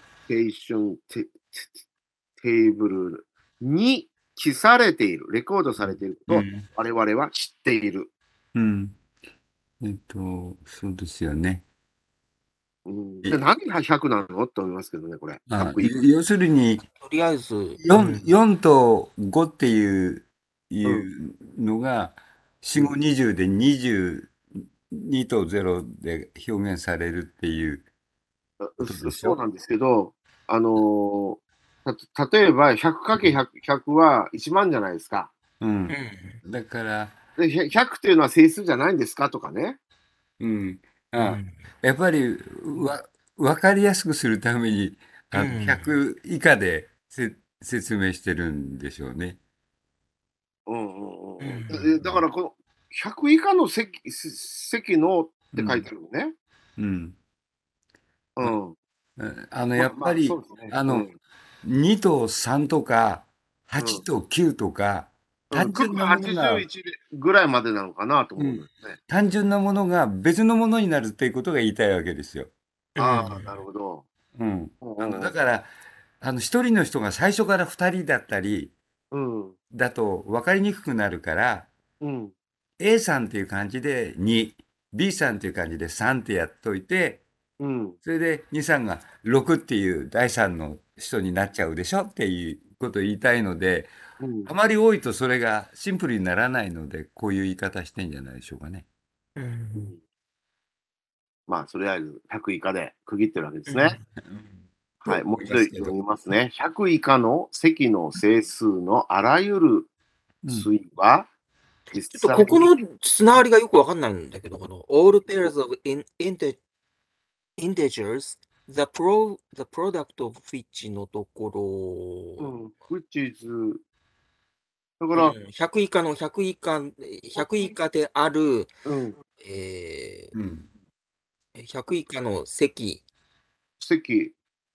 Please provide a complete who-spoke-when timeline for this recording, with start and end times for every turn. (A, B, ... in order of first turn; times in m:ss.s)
0:00.3-0:01.8 A
0:02.4-0:08.1 A
0:05.8-0:06.7 B
0:08.5-0:09.0 B
0:09.8-0:11.6 B
0:12.8-0:15.9 A
0:15.5-0:16.8 B
0:16.9-0:18.3 C
0:17.8-0:27.8 B
0:28.6-0:35.3 A
0:28.8-0:29.4 B
0:35.6-0:37.2 B
0:35.9-0:36.4 C
0:37.4-0:39.8 A
0:40.4-0:49.4 B
0:41.2-0:41.6 C
0:45.3-0:45.9 C
0:50.7-0:56.3 A
0:51.4-0:52.2 C
0:55.5-0:55.9 B
0:56.8-0:57.2 B
0:58.4-0:58.8 A
0:59.2-1:01.1 B
0:59.8-1:01.1 A
1:01.6-1:06.6 B
1:05.5-1:09.0 A
1:08.4-1:12.5 B
1:13.0-1:13.6 C
1:13.0-1:14.0 A
1:14.3-1:15.7 B
1:14.8-1:15.3 A
1:16.2-1:18.7 B
1:19.1-1:19.6 A
1:19.7-1:21.7 B
1:22.0-1:22.3 A
1:22.8-1:27.2 B
1:27.6-1:28.0 A
1:28.0-1:33.9 B
1:34.2-1:34.5 A
1:34.4-1:38.8 B
1:39.4-1:39.9 C
1:41.5-1:44.0 A
1:43.7-1:44.0 C
1:44.2-1:46.0 B
1:45.1-1:49.9 A
1:50.5-1:51.3 A
1:51.9-1:52.7 A
1:52.1-1:56.6 C
1:57.6-2:02.5 C
2:02.4-2:03.8 A
2:05.0-2:05.4 A
2:05.1-2:08.7 C
2:07.4-2:07.7 A
2:08.8-2:09.2 A
2:09.4-2:10.3 C
2:10.3-2:10.7 B
2:11.5-2:13.0 C
2:13.8-2:14.3 A